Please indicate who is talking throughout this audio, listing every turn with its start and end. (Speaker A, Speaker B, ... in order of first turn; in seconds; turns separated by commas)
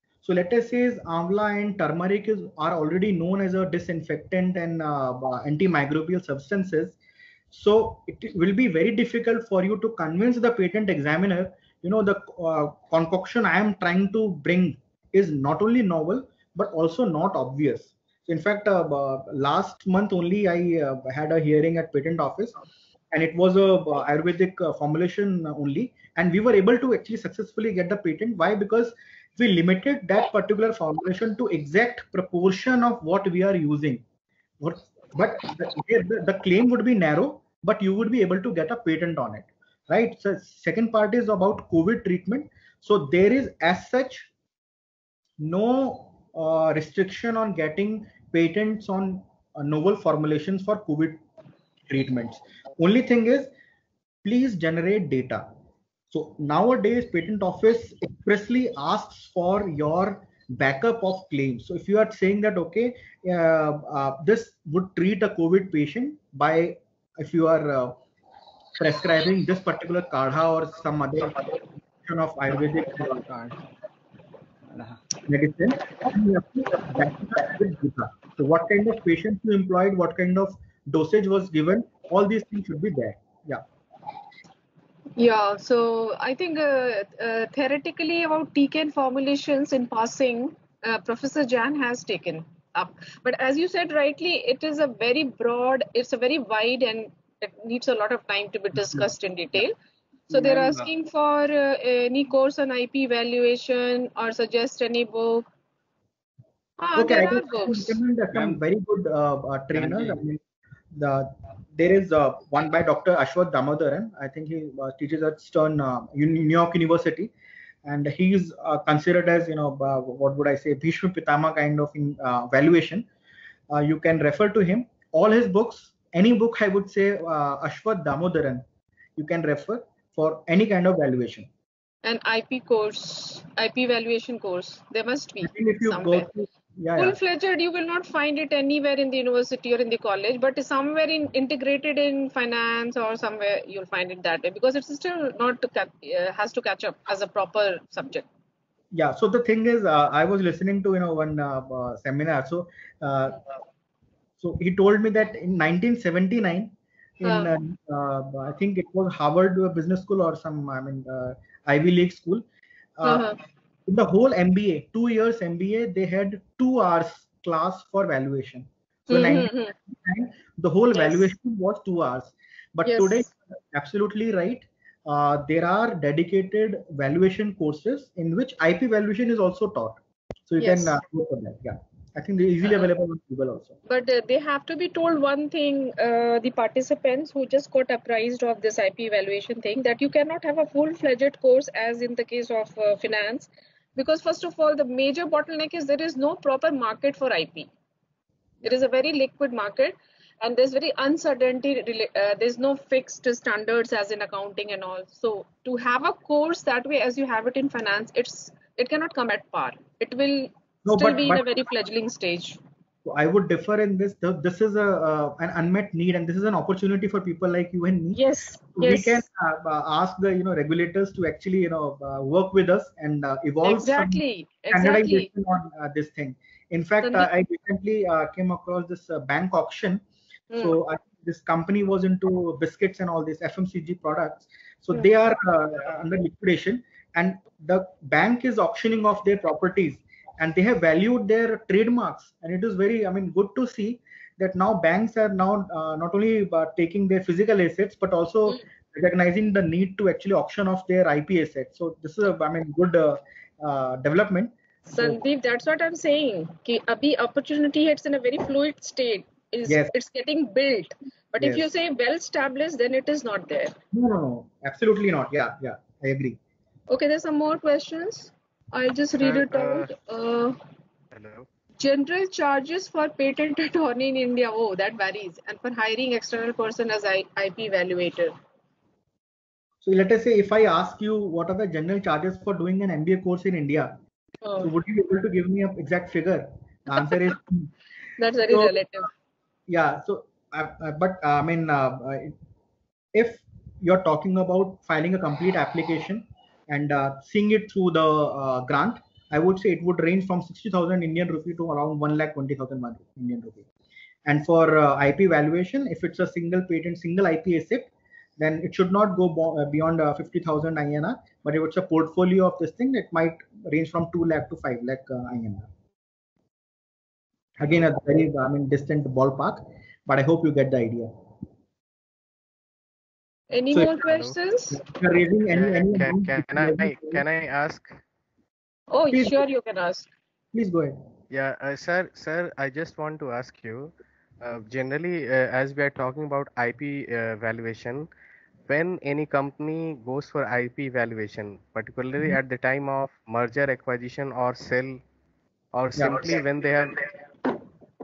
Speaker A: 0.2-7.0, Speaker A: 7.5-22.6, Speaker A: 23.1-34.0, Speaker A: 34.6-44.3, Speaker A: 45.4-51.2, Speaker A: 51.9-53.5, Speaker A: 54.2-55.5, Speaker A: 56.1-68.0, Speaker A: 68.8-73.6, Speaker A: 74.8-83.6, Speaker B: 85.2-99.8, Speaker A: 98.8-99.0, Speaker B: 100.3-105.5, Speaker A: 100.3-100.9, Speaker B: 106.8-108.0, Speaker A: 107.0-110.4, Speaker A: 110.9-117.3, Speaker A: 117.8-123.0, Speaker A: 123.7-128.6, Speaker A: 129.2-131.5, Speaker B: 132.0-136.3, Speaker A: 135.4-137.2, Speaker B: 137.0-148.2, Speaker A: 148.9-153.4, Speaker A: 154.4-162.4, Speaker B: 157.2-157.5, Speaker A: 163.0-163.3, Speaker B: 163.0-163.4, Speaker A: 163.9-183.8, Speaker B: 169.1-169.7, Speaker B: 170.9-171.2, Speaker B: 172.8-173.3, Speaker B: 180.6-181.0, Speaker B: 183.8-197.7, Speaker B: 198.6-212.6, Speaker A: 210.8-211.4, Speaker A: 213.0-218.2, Speaker B: 218.1-219.2, Speaker A: 218.7-230.0, Speaker B: 223.6-225.3, Speaker B: 227.0-227.3, Speaker A: 230.5-255.2, Speaker B: 254.9-263.8, Speaker A: 259.6-259.9, Speaker A: 261.4-261.7, Speaker A: 263.9-266.4, Speaker B: 266.9-270.6, Speaker C: 269.2-269.9, Speaker C: 271.1-271.4, Speaker B: 271.8-278.3, Speaker A: 279.8-284.0, Speaker B: 284.4-284.7, Speaker A: 284.6-287.7, Speaker B: 288.2-289.1, Speaker A: 288.5-288.8, Speaker A: 289.7-292.3, Speaker A: 293.1-303.6, Speaker A: 304.2-315.7, Speaker A: 317.6-321.1, Speaker B: 323.5-324.8, Speaker A: 323.7-324.1, Speaker A: 324.7-327.2, Speaker C: 325.5-328.0, Speaker B: 328.9-330.1, Speaker A: 329.1-329.4, Speaker A: 330.5-331.0, Speaker C: 331.3-338.1, Speaker C: 338.7-345.0, Speaker C: 345.7-347.1, Speaker A: 345.9-346.4